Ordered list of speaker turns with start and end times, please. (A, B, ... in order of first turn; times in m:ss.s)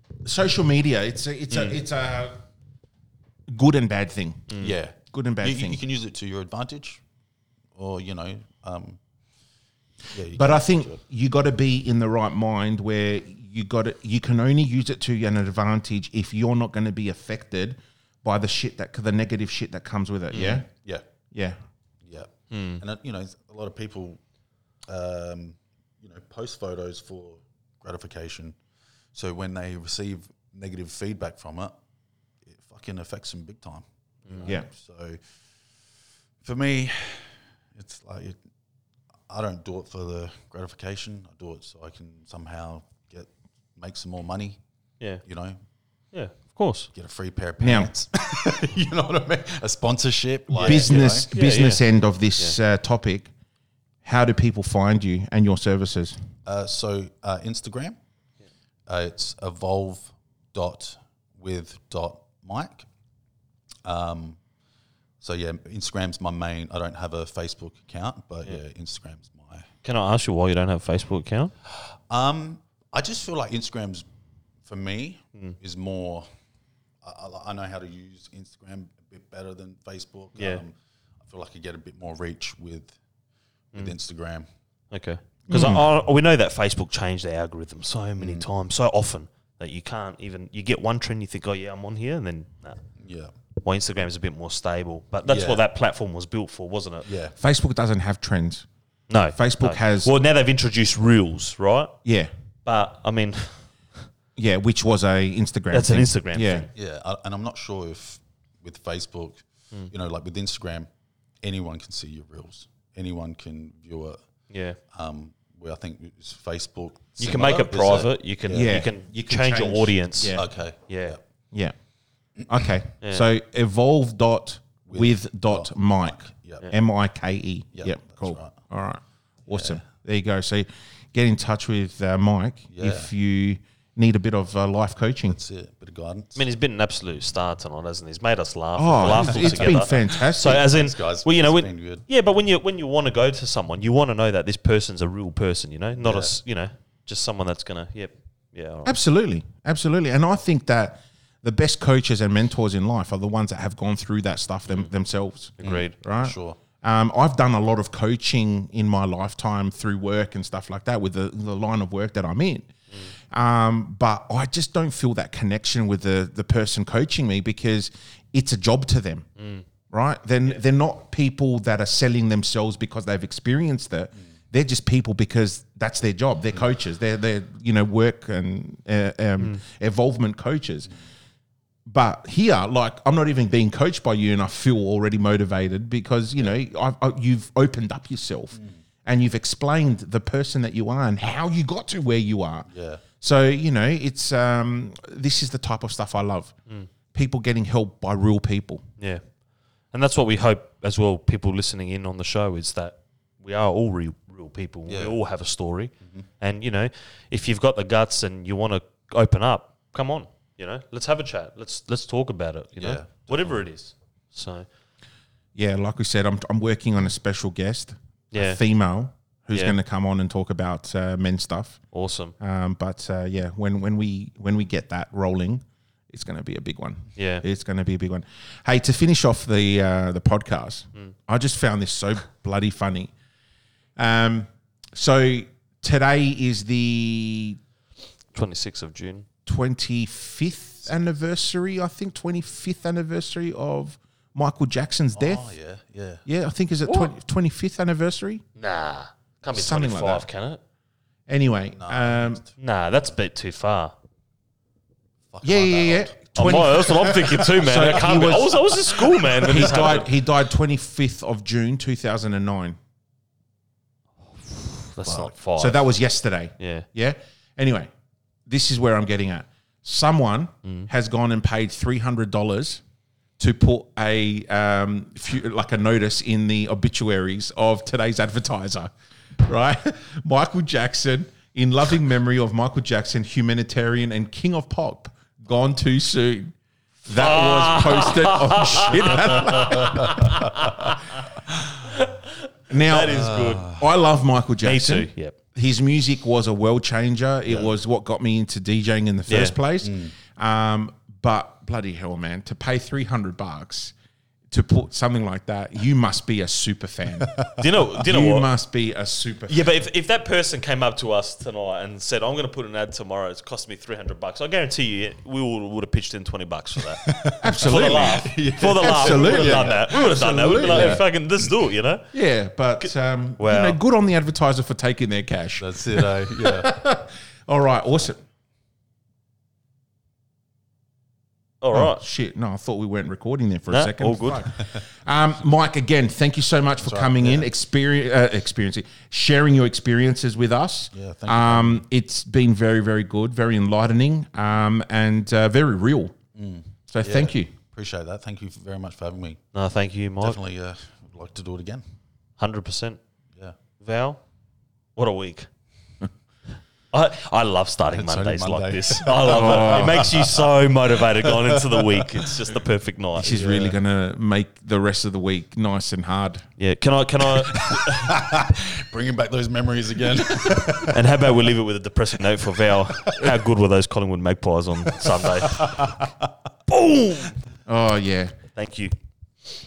0:00.2-0:02.4 A
0:01.5-0:01.8 B
0:03.5-0:04.5 A
0:04.5-0:04.8 B
0:04.6-0:07.0 C
0:05.1-0:05.8 A
0:07.8-0:09.0 C
0:10.1-0:11.0 C
0:10.4-0:20.7 A
0:20.3-0:20.6 B
0:20.7-0:21.0 C
0:22.0-0:24.2 C
0:22.5-0:22.8 B
0:24.9-0:28.6 C
0:29.1-0:31.8 C
0:32.5-0:35.2 C
0:34.3-0:34.5 B
0:36.4-0:38.4 C
0:39.3-0:44.6 C
0:45.2-0:45.6 C
0:46.1-0:46.9 B
0:46.9-0:51.3 C
0:47.6-0:47.9 A
0:50.6-0:51.9 B
0:50.6-0:53.3 A
0:54.0-0:56.2 A
0:56.4-0:58.0 C
0:58.9-1:02.9 C
1:03.8-1:04.4 C
1:05.2-1:09.7 C
1:09.8-1:11.5 B
1:11.7-1:14.1 C
1:14.6-1:16.3 C
1:17.0-1:20.7 C
1:21.3-1:23.0 C
1:23.7-1:24.5 C
1:24.9-1:32.8 B
1:25.5-1:25.8 C
1:25.5-1:25.8 A
1:28.2-1:28.5 C
1:33.0-1:33.3 C
1:33.6-1:37.1 B
1:35.3-1:35.6 C
1:37.0-1:37.4 C
1:37.4-1:38.7 A
1:39.1-1:41.9 B
1:39.4-1:40.1 A
1:42.0-1:42.3 A
1:42.6-1:43.7 B
1:44.4-1:46.7 A
1:45.7-1:46.7 B
1:46.8-1:50.9 C
1:51.4-1:54.2 C
1:54.5-1:54.8 B
1:54.9-1:58.8 C
1:57.2-2:01.2 B
1:58.5-2:00.4 A
2:00.3-2:01.2 C
2:02.4-2:02.8 C
2:02.5-2:15.4 A
2:04.9-2:06.7 C
2:07.8-2:08.6 C
2:09.5-2:09.8 C
2:12.7-2:13.1 C
2:15.3-2:16.5 C
2:16.4-2:29.0 B
2:18.8-2:20.6 A
2:19.1-2:22.0 C
2:26.0-2:26.3 C
2:28.8-2:42.7 A
2:35.6-2:36.0 B
2:35.6-2:36.6 C
2:43.3-2:49.3 A
2:49.4-2:49.6 B
2:49.9-3:00.9 A
3:01.9-3:12.7 A
3:08.5-3:08.8 C
3:12.7-3:13.0 C
3:13.2-3:16.5 A
3:17.1-3:18.8 A
3:19.0-3:19.2 B
3:19.9-3:34.7 B
3:24.9-3:25.2 C
3:32.8-3:33.6 C
3:35.6-3:41.8 A
3:38.3-3:38.6 B
3:41.9-3:42.3 B
3:42.4-3:53.1 A
3:47.2-3:47.4 B
3:54.0-3:57.6 A
3:58.3-3:59.3 B
3:59.5-4:05.5 A
4:05.2-4:06.2 C
4:06.3-4:08.4 A
4:06.8-4:07.1 B
4:08.6-4:10.6 B
4:09.5-4:10.2 A
4:11.3-4:12.4 A
4:11.7-4:12.5 C
4:12.6-4:13.9 B
4:15.3-4:20.0 C
4:15.4-4:18.6 A
4:16.4-4:20.1 B
4:19.4-4:22.8 A
4:24.4-4:25.8 B
4:25.6-4:27.9 A
4:26.6-4:26.9 B
4:28.5-4:32.8 A
4:30.6-4:30.9 B
4:33.4-4:46.6 A
4:47.1-4:50.4 A
4:47.1-4:51.3 B
4:49.8-4:50.4 C
4:51.8-4:53.7 B
4:52.7-5:03.9 A
4:53.1-4:53.9 C
4:54.6-4:55.3 B
4:57.5-4:57.7 C
4:59.3-4:59.6 B
4:59.8-5:00.1 C
5:04.5-5:09.8 A
5:07.2-5:07.6 C
5:07.6-5:08.5 B
5:09.5-5:17.0 B
5:17.0-5:19.9 C
5:17.4-5:21.0 A
5:17.6-5:22.1 B
5:20.6-5:21.0 C
5:22.1-5:28.2 A
5:22.8-5:23.8 B
5:25.6-5:26.7 C
5:31.6-5:32.0 B
5:31.7-5:46.2 A
5:33.7-5:34.5 B
5:36.8-5:37.5 C
5:40.9-5:41.8 C
5:46.4-5:49.4 C
5:46.9-5:47.5 A
5:49.5-5:50.4 B
5:50.2-5:51.8 C
5:52.4-5:53.0 B
5:53.8-5:54.2 B
5:55.0-5:55.5 B
5:56.9-6:03.5 B
5:57.9-6:00.5 C
5:59.3-6:00.1 A
6:01.1-6:02.1 C
6:03.2-6:06.4 A
6:03.3-6:03.8 C
6:06.6-6:08.1 B
6:07.5-6:11.2 C
6:10.8-6:16.0 B
6:12.8-6:13.4 C
6:15.0-6:16.3 C
6:16.7-6:17.4 B
6:17.7-6:18.3 A
6:18.5-6:18.9 B